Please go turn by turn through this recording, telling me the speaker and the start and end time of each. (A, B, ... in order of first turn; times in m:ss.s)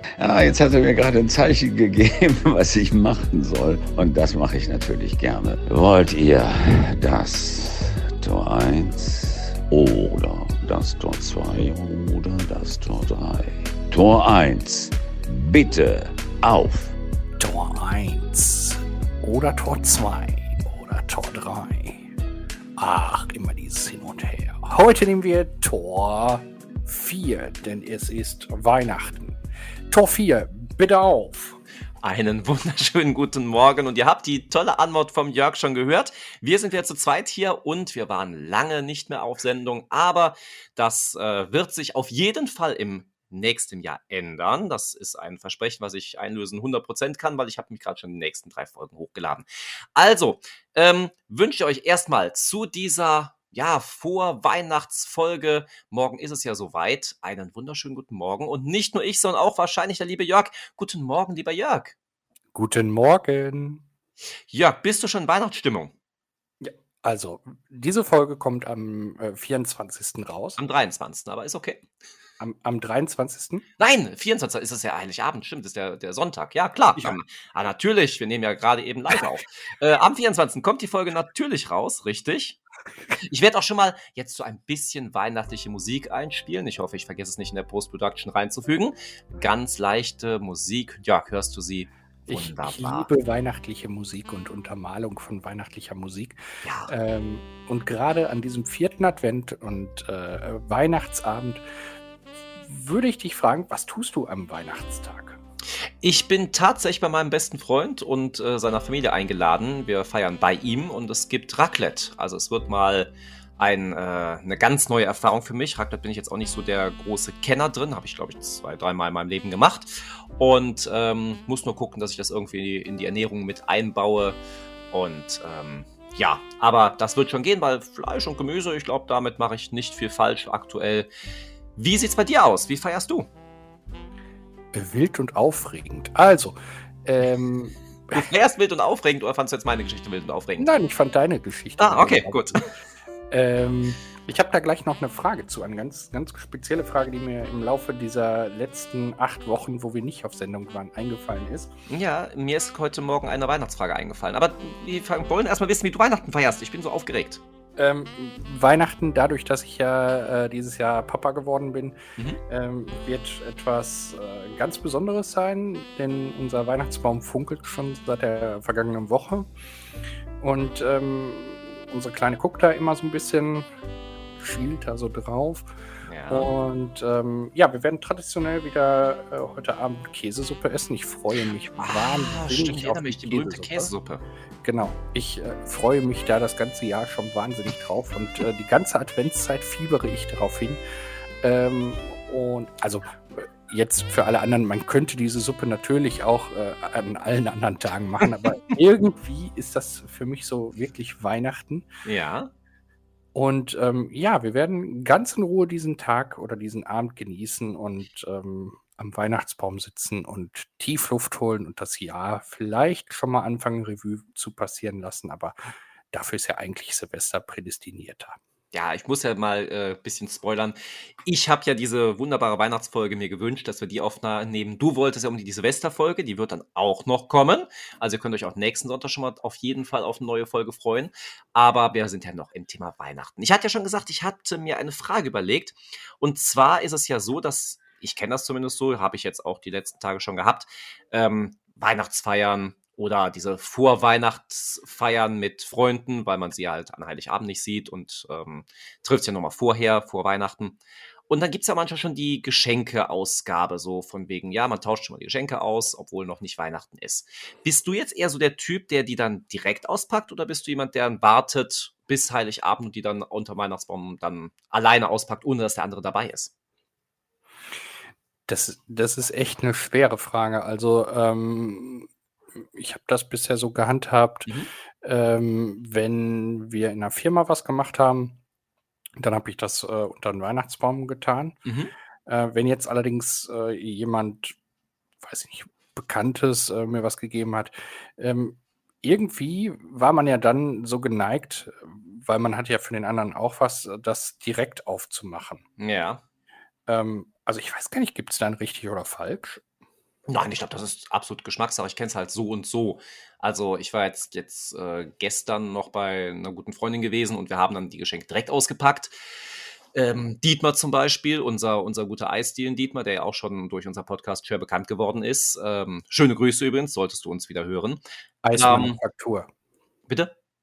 0:00.2-0:17.0 A
0:17.4-0:22.1 B
0:22.8-0:29.4 B
0:29.9-0:31.6 B
0:32.0-1:02.0 C
1:02.5-1:03.8 B
1:04.5-1:05.9 C
1:06.6-1:10.6 B
1:10.6-1:11.8 C
1:12.4-1:13.7 B
1:13.8-1:22.6 C
1:23.2-1:33.1 C
1:32.3-1:41.6 B
1:36.6-1:36.9 C
1:42.6-1:45.4 B
1:46.0-2:04.4 C
2:04.9-2:11.1 C
2:11.8-2:13.3 C
2:14.7-2:18.3 B
2:18.1-2:20.8 C
2:20.6-2:22.6 B
2:21.8-2:22.7 C
2:23.3-2:31.7 B
2:31.9-2:37.4 C
2:37.8-2:49.5 B
2:50.4-2:53.7 B
2:54.4-2:55.7 B
2:56.1-2:56.5 C
2:56.3-3:03.9 B
3:01.8-3:04.2 C
3:04.6-3:10.8 B
3:11.4-3:21.9 B
3:22.0-3:22.5 C
3:23.3-3:35.6 B
3:36.1-3:38.4 B
3:38.7-4:26.5 C
4:28.5-4:32.1 B
4:32.6-4:34.5 B
4:35.0-4:38.4 B
4:39.2-4:41.6 B
4:41.7-4:41.9 C
4:42.3-4:44.6 B
4:45.2-4:55.6 B
4:55.8-4:56.2 C
4:56.9-4:59.6 B
5:00.3-5:09.1 C
5:09.9-5:18.0 C
5:18.4-5:19.5 B
5:18.5-5:19.0 C
5:20.1-5:20.3 C